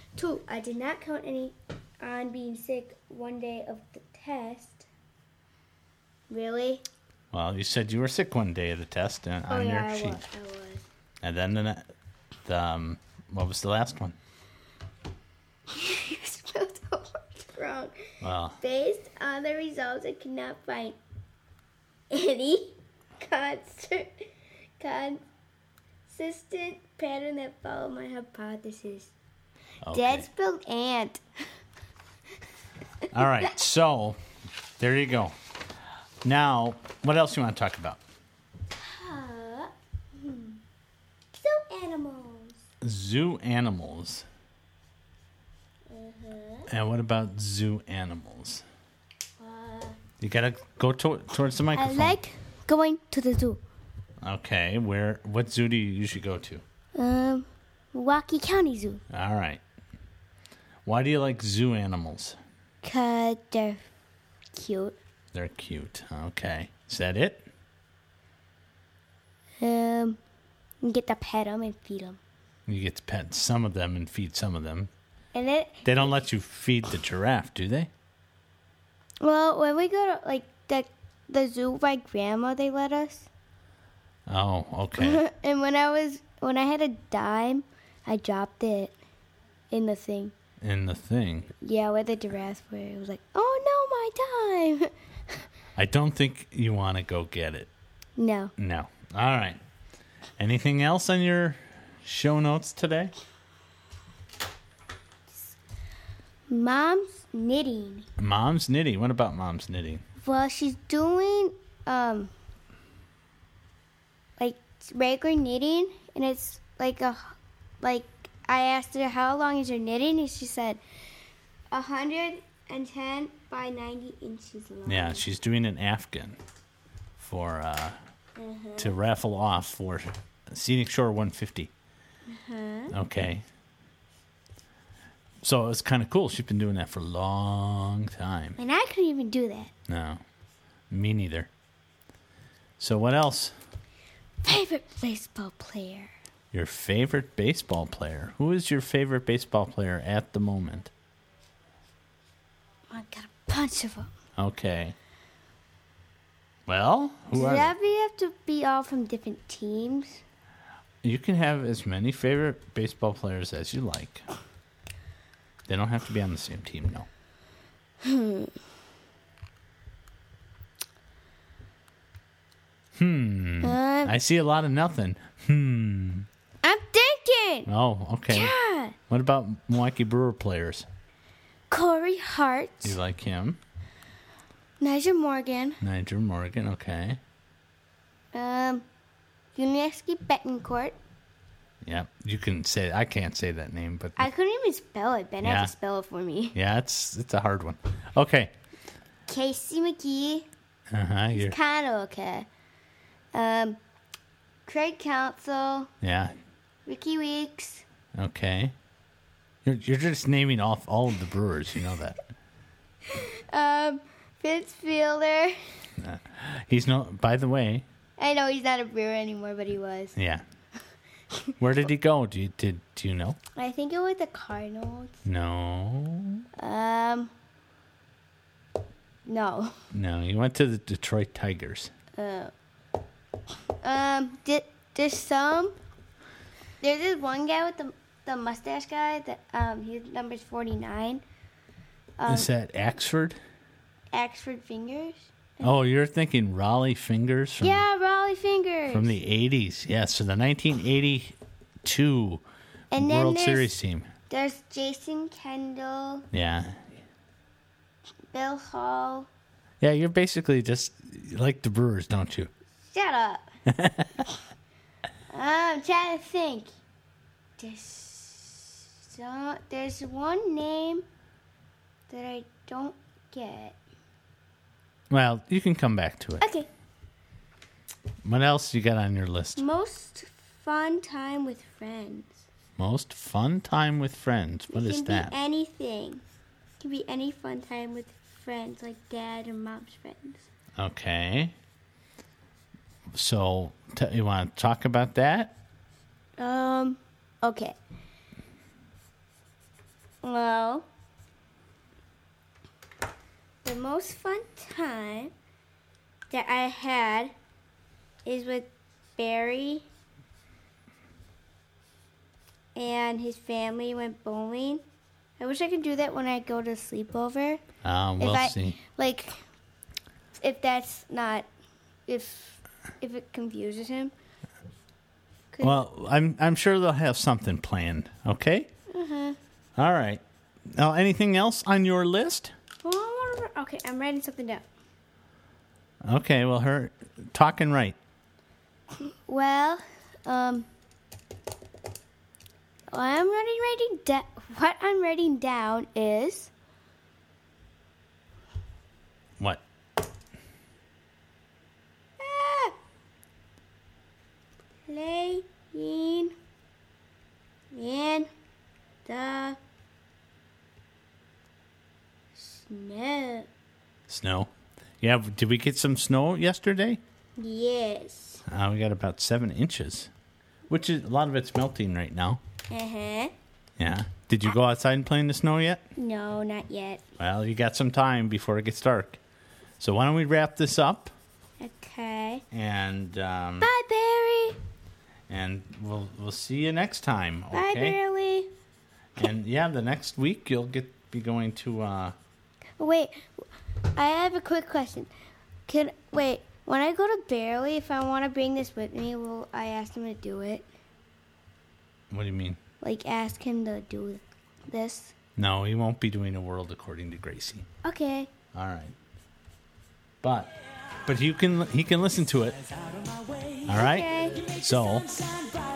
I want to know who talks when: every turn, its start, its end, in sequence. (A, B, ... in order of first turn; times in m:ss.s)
0:00.1-0:04.9 A
0:06.3-0:06.8 A
0:07.3-0:10.2 B
0:09.5-0:10.8 A
0:11.2-0:11.9 B
0:12.4-0:14.2 B
0:15.7-0:18.1 A
0:18.2-0:18.6 B
0:18.6-0:21.0 A
0:22.1-0:25.2 A
0:26.1-0:29.1 A
0:29.8-0:30.3 B
0:29.9-0:31.2 A
0:33.1-0:34.2 B
0:34.8-0:35.3 B
0:36.2-0:38.0 B
0:38.7-0:40.6 A
0:41.3-0:42.6 A
0:42.8-0:44.2 B
0:45.9-0:46.7 A
0:46.7-0:48.6 B
0:49.4-0:50.0 A
0:50.2-0:52.2 B
0:51.7-0:53.6 A
0:54.2-0:56.6 B
0:56.9-0:59.0 A
0:59.1-0:59.6 B
1:00.8-1:02.4 B
1:02.8-1:03.8 A
1:04.5-1:05.0 A
1:05.3-1:07.4 B
1:09.6-1:10.2 A
1:10.8-1:12.2 A
1:12.7-1:14.9 B
1:15.3-1:16.2 A
1:15.8-1:17.9 B
1:19.2-1:23.3 A
1:24.3-1:25.2 B
1:25.0-1:28.9 A
1:29.7-1:30.3 A
1:30.6-1:31.5 B
1:31.6-1:34.9 A
1:35.8-1:37.7 B
1:38.2-1:38.5 A
1:38.6-1:39.6 B
1:40.4-1:43.1 B
1:45.3-1:45.6 A
1:46.5-1:48.1 A
1:48.2-1:50.0 B
1:50.2-1:52.3 A
1:54.4-2:00.8 A
2:01.7-2:05.2 A
2:04.8-2:06.4 B
2:07.2-2:08.0 B
2:08.4-2:09.0 A
2:08.8-2:11.7 B
2:12.3-2:12.9 A
2:12.9-2:13.4 B
2:15.4-2:18.6 B
2:18.6-2:19.7 A
2:19.9-2:20.2 B
2:20.9-2:21.5 B
2:22.8-2:23.5 B
2:24.4-2:26.1 A
2:26.5-2:30.9 B
2:32.9-2:34.1 A
2:34.4-2:35.0 B
2:36.7-2:37.7 B
2:37.3-2:40.2 A
2:41.0-2:44.2 B
2:45.7-2:47.1 B
2:48.0-2:48.5 A
2:53.0-2:56.3 B
2:53.6-2:54.1 A
2:56.6-2:57.7 A
2:57.7-2:58.5 B
2:58.3-2:59.0 A
2:59.1-3:00.9 B
3:01.7-3:03.0 A
3:02.8-3:03.6 B
3:04.8-3:05.8 A
3:05.8-3:07.2 B
3:08.3-3:08.8 A
3:09.5-3:11.0 A
3:11.8-3:14.3 B
3:14.2-3:16.6 A
3:15.4-3:15.7 B
3:16.5-3:18.5 B
3:19.3-3:20.5 A
3:20.9-3:21.6 B
3:21.3-3:22.5 A
3:23.3-3:23.8 A
3:24.6-3:25.9 A
3:26.0-3:26.3 B
3:26.8-3:27.8 A
3:28.1-3:28.7 B
3:29.6-3:32.2 B
3:33.1-3:35.6 A
3:36.0-3:37.8 B
3:38.2-3:40.1 A
3:40.2-3:40.4 B
3:41.6-3:43.4 B
3:43.6-3:45.2 A
3:45.2-3:46.4 B
3:46.6-3:47.3 A
3:49.2-3:49.8 A
3:49.9-3:51.9 B
3:52.2-3:52.5 A
3:53.8-3:55.8 A
3:56.8-4:01.2 A
4:02.2-4:02.5 A
4:02.3-4:03.4 B
4:04.1-4:05.8 A
4:05.6-4:07.8 B
4:07.6-4:09.2 A
4:08.9-4:12.4 B
4:12.9-4:13.7 A
4:12.9-4:14.1 B
4:14.3-4:16.3 A
4:16.3-4:16.9 B
4:18.3-4:19.3 A
4:19.8-4:22.5 B
4:22.8-4:23.5 A
4:23.7-4:24.1 B
4:25.3-4:26.7 A
4:27.6-4:31.0 A
4:32.1-4:33.8 A
4:35.1-4:36.4 B
4:36.4-4:36.7 A
4:38.2-4:39.6 B
4:39.6-4:42.4 A
4:42.8-4:45.3 B
4:44.7-4:46.2 A
4:46.8-4:50.4 A
4:50.8-4:51.6 B
4:53.1-4:55.5 B
4:56.4-4:57.8 A
5:00.2-5:00.8 A
5:03.6-5:05.3 A
5:06.3-5:07.3 A
5:08.2-5:09.9 A
5:12.7-5:14.8 A
5:15.4-5:17.6 A
5:17.8-5:18.8 B
5:18.2-5:19.4 A
5:20.4-5:21.5 A
5:22.1-5:24.1 A
5:25.5-5:25.9 A
5:25.6-5:28.7 B
5:28.9-5:29.4 A
5:29.8-5:32.5 B
5:32.8-5:34.6 A
5:36.0-5:38.0 B
5:39.0-5:40.7 A
5:42.9-5:46.5 A
5:49.4-5:49.6 B
5:52.2-5:52.7 A
5:54.9-5:56.3 A
5:57.7-5:58.3 A
5:59.0-5:59.6 A
6:02.4-6:03.5 A
6:04.1-6:07.0 B
6:07.4-6:08.4 A
6:08.5-6:10.1 B
6:10.7-6:12.4 B
6:12.7-6:13.3 A
6:13.8-6:15.8 B
6:16.0-6:17.0 A
6:17.2-6:19.2 B
6:19.8-6:21.1 B
6:21.6-6:22.4 A
6:22.5-6:23.7 B
6:23.6-6:24.6 A
6:25.3-6:28.0 B
6:27.5-6:28.5 A
6:29.2-6:32.1 B
6:32.8-6:35.1 A
6:35.7-6:40.7 A
6:42.1-6:42.6 B
6:42.8-6:45.1 A
6:45.4-6:47.6 B
6:47.8-6:48.3 A
6:48.5-6:48.9 B
6:50.2-6:50.5 B
6:51.0-6:52.6 B
6:53.7-6:55.2 B
6:53.7-6:54.5 A